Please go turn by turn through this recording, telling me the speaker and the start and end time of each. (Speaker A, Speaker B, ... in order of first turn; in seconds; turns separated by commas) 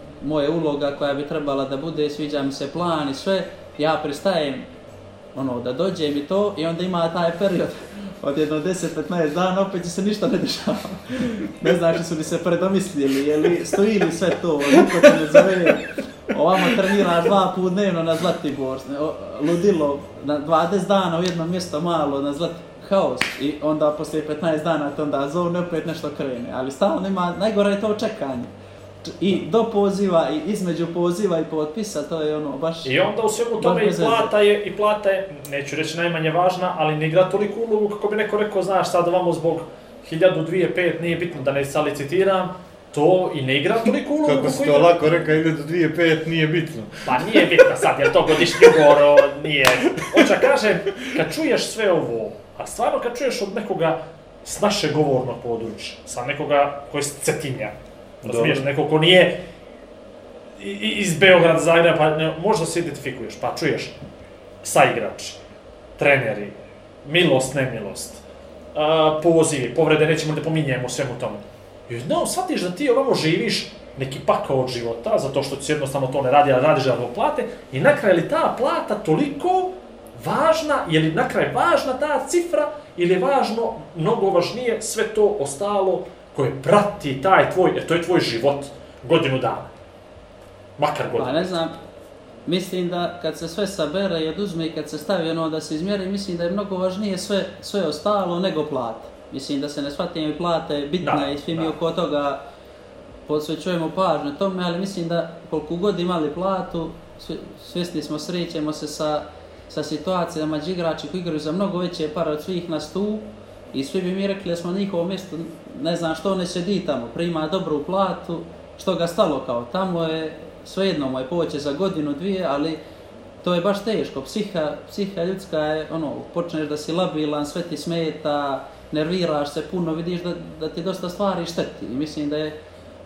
Speaker A: 0.2-4.7, Speaker A: 5.3-32.9, Speaker B: 32.8-45.1, Speaker A: 33.6-34.3, Speaker C: 44.2-47.5, Speaker B: 47.0-59.4, Speaker C: 58.2-58.7, Speaker B: 60.6-64.0, Speaker B: 64.6-65.4, Speaker B: 66.0-68.2, Speaker B: 68.8-89.7, Speaker B: 90.8-91.5, Speaker A: 91.2-91.8, Speaker A: 92.5-102.4, Speaker B: 101.0-101.8, Speaker A: 103.3-122.8, Speaker A: 123.4-132.6